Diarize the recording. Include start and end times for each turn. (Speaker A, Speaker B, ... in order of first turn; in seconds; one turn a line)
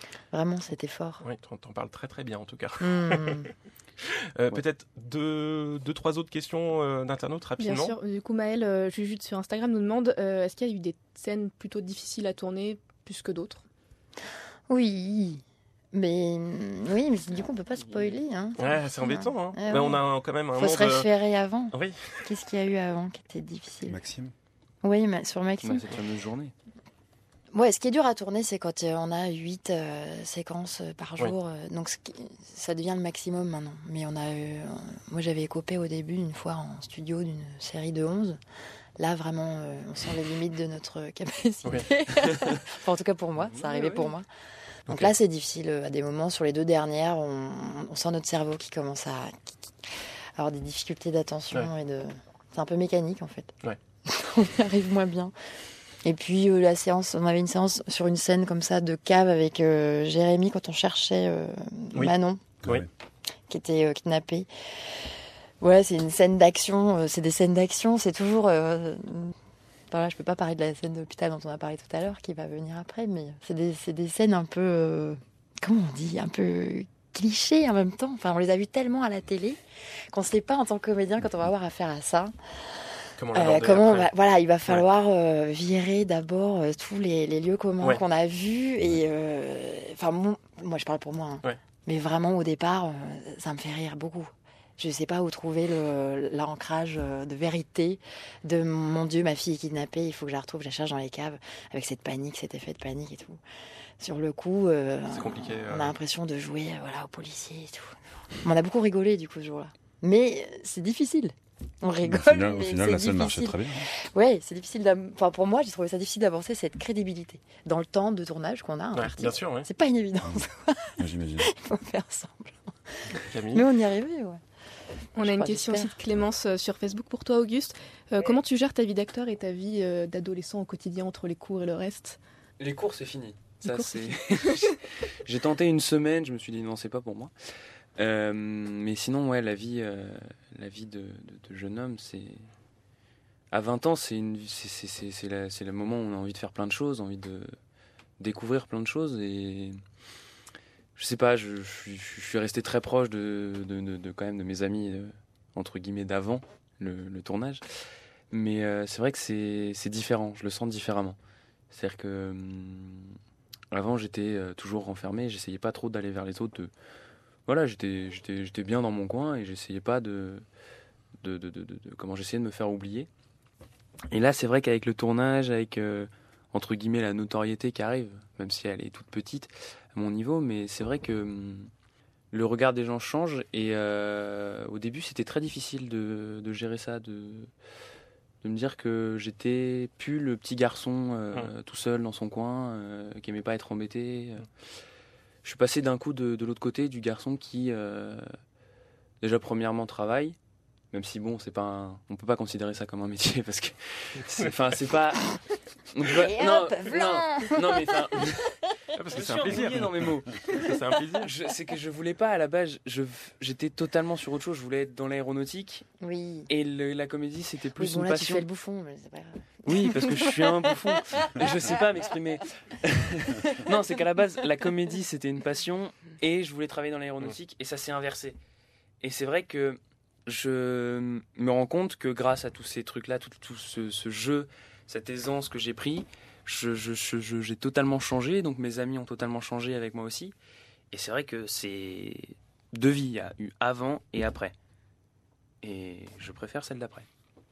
Speaker A: 0.3-1.2
Speaker B: 1.2-3.5
Speaker A: 2.8-3.5
Speaker B: 4.3-7.9
Speaker C: 7.6-13.6
Speaker A: 14.7-15.4
Speaker A: 15.9-20.0
Speaker B: 18.6-21.1
Speaker A: 20.6-24.0
Speaker B: 21.7-22.3
Speaker D: 23.9-24.3
Speaker A: 24.8-25.9
Speaker E: 25.6-26.5
Speaker A: 27.5-38.4
Speaker A: 39.0-44.3
Speaker E: 43.5-44.1
Speaker A: 44.9-55.3
Speaker A: 56.0-62.5
Speaker B: 61.9-62.9
Speaker D: 62.6-62.9
Speaker A: 63.5-65.1
Speaker A: 65.6-69.3
Speaker A: 69.9-79.6
Speaker A: 80.1-82.8
Speaker B: 83.2-84.1
Speaker A: 83.3-103.4
Speaker A: 104.0-124.4
Speaker B: 105.1-106.0
Speaker D: 112.0-113.9
Speaker B: 118.9-119.7
Speaker D: 121.0-121.5
Speaker B: 123.3-123.7
Speaker C: 125.2-132.2
Speaker A: 125.2-125.9
Speaker E: 132.6-137.3
Speaker C: 133.6-134.7
Speaker E: 137.9-142.4
Speaker E: 143.5-147.5
Speaker E: 148.2-149.8
Speaker E: 150.9-157.6
Speaker E: 158.3-161.2
Speaker E: 161.7-163.1
Speaker E: 163.7-166.7
Speaker E: 167.4-170.4
Speaker E: 171.2-173.1
Speaker E: 174.1-181.7
Speaker E: 182.3-187.5
Speaker E: 188.4-194.5
Speaker E: 195.4-198.3
Speaker E: 199.2-200.4
Speaker E: 200.9-205.2
Speaker E: 205.9-208.4
Speaker A: 206.1-208.2
Speaker B: 209.0-209.9
Speaker E: 209.1-215.8
Speaker B: 210.5-211.3
Speaker A: 216.0-216.5
Speaker E: 216.5-218.4
Speaker A: 217.7-221.8
Speaker E: 219.7-228.4
Speaker E: 229.0-240.3
Speaker E: 240.9-244.5
Speaker E: 245.6-247.1